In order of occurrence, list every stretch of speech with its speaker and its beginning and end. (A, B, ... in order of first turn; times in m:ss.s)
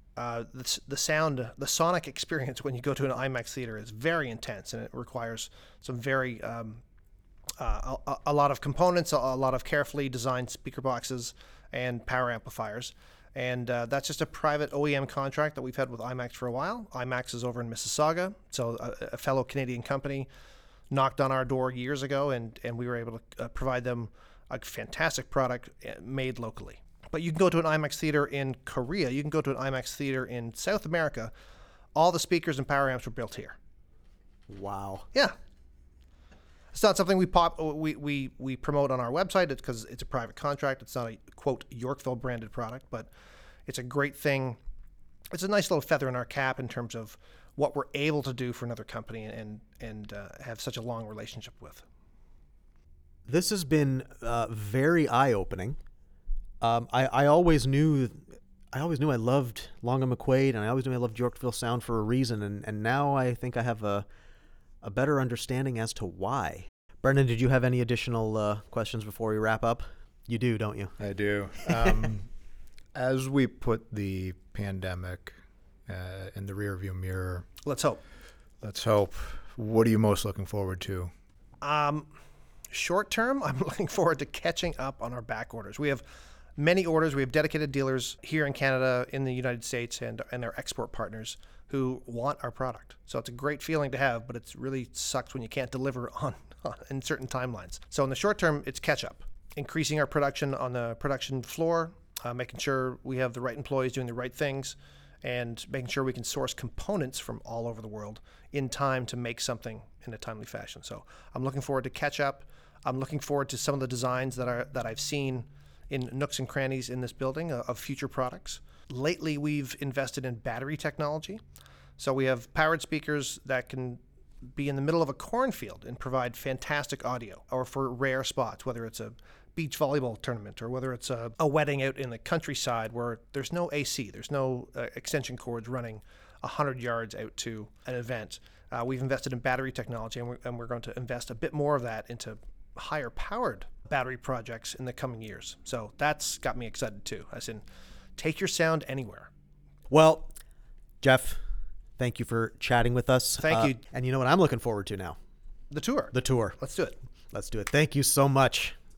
0:00.2-0:06.8 A
0:07.6-0:20.3 A
0:20.9-0:31.3 A
0:32.0-0:33.6 A
0:34.5-0:35.1 B
0:36.7-0:43.1 A
0:43.7-0:44.6 A
0:45.3-0:51.8 A
0:53.3-0:55.8 B
0:56.6-1:04.0 B
1:04.8-1:11.0 B
1:11.0-1:12.3 C
1:11.6-1:11.9 B
1:13.0-1:17.5 C
1:17.6-1:18.0 A
1:18.6-1:21.1 C
1:21.6-1:22.1 A
1:22.7-1:26.0 A
1:26.6-2:01.4 A
2:02.0-2:04.0 A
2:04.6-2:27.6 A
2:28.2-2:29.3 A
2:29.9-2:30.3 B
2:31.0-2:31.4 B
2:32.0-2:35.2 B
2:33.4-2:33.8 A
2:35.7-2:37.0 A
2:36.1-2:36.6 B
2:37.3-2:38.8 B